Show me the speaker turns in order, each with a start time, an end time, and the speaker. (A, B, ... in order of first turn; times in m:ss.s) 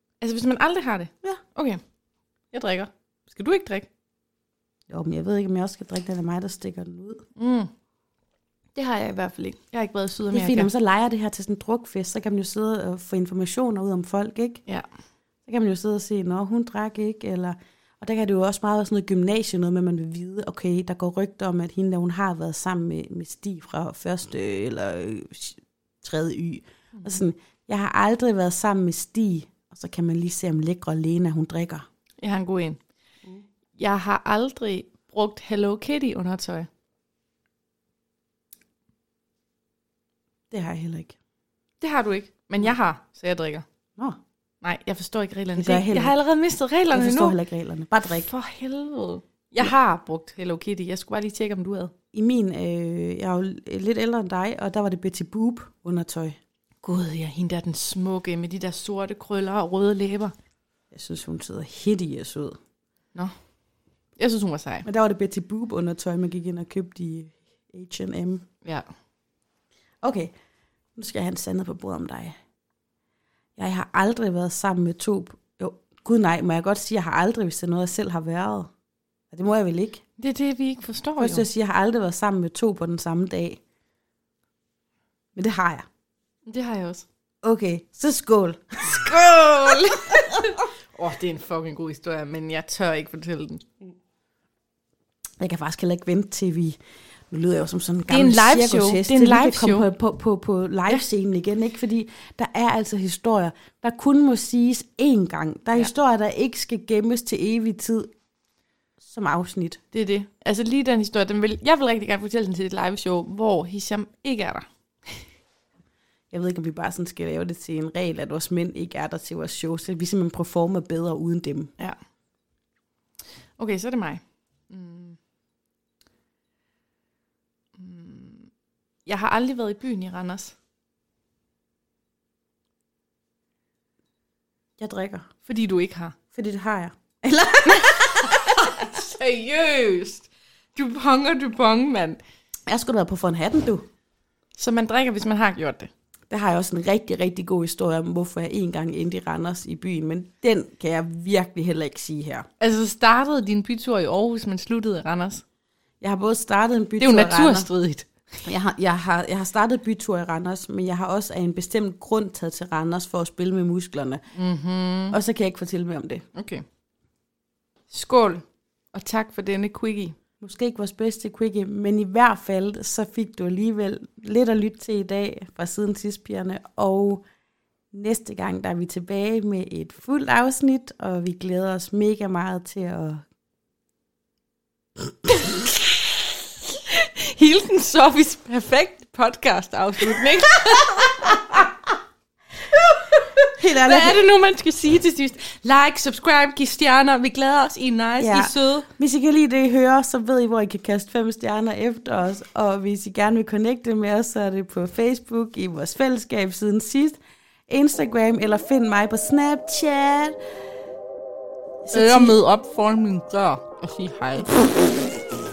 0:00.2-0:01.8 A
0:02.5-0:03.9 A
0:04.9-0:07.3 B
0:07.4-0:07.7 A
0:08.8-0:10.7 A
0:10.3-0:14.6 B
0:15.5-0:31.9 B
0:32.2-0:32.8 A
0:33.8-0:36.7 A
0:40.5-0:41.2 B
0:41.8-0:43.6 A
0:44.6-0:47.4 A
0:45.6-0:46.2 B
0:46.9-0:48.3 B
0:48.1-0:51.9 A
0:52.1-0:56.4 B
0:56.8-1:00.3 A
1:00.9-1:02.6 B
1:04.2-1:04.9 A
1:04.8-1:08.5 B
1:10.0-1:10.3 B
1:11.0-1:12.4 B
1:13.6-1:18.7 B
1:19.3-1:20.0 B
1:20.2-1:21.5 A
1:21.2-1:23.6 B
1:25.4-1:25.9 B
1:26.5-1:27.1 A
1:27.4-1:30.4 B
1:29.1-1:33.7 A
1:35.4-1:36.8 B
1:37.3-1:48.1 B
1:38.1-1:39.9 A
1:49.0-1:49.8 B
1:49.9-1:55.3 A
1:56.3-2:01.7 B
2:03.6-2:05.2 A
2:07.8-2:08.5 A
2:09.1-2:10.6 A
2:14.8-2:15.3 B
2:15.4-2:16.2 A
2:16.3-2:18.5 B
2:17.8-2:22.2 A
2:22.7-2:23.9 B
2:24.6-2:25.9 A
2:26.3-2:32.5 B
2:32.6-2:35.4 A
2:36.0-2:37.7 B
2:37.0-2:38.5 A
2:38.5-2:44.2 B
2:44.3-2:45.2 A
2:45.1-2:46.2 B
2:46.4-2:46.6 A
2:47.9-2:50.2 A
2:50.4-2:57.2 B
2:57.9-3:03.2 B
3:05.5-3:11.7 A
3:12.7-3:18.9 A
3:13.6-3:14.2 B
3:18.2-3:27.2 B
3:27.7-3:30.4 B
3:31.8-3:32.4 B
3:31.9-3:35.2 A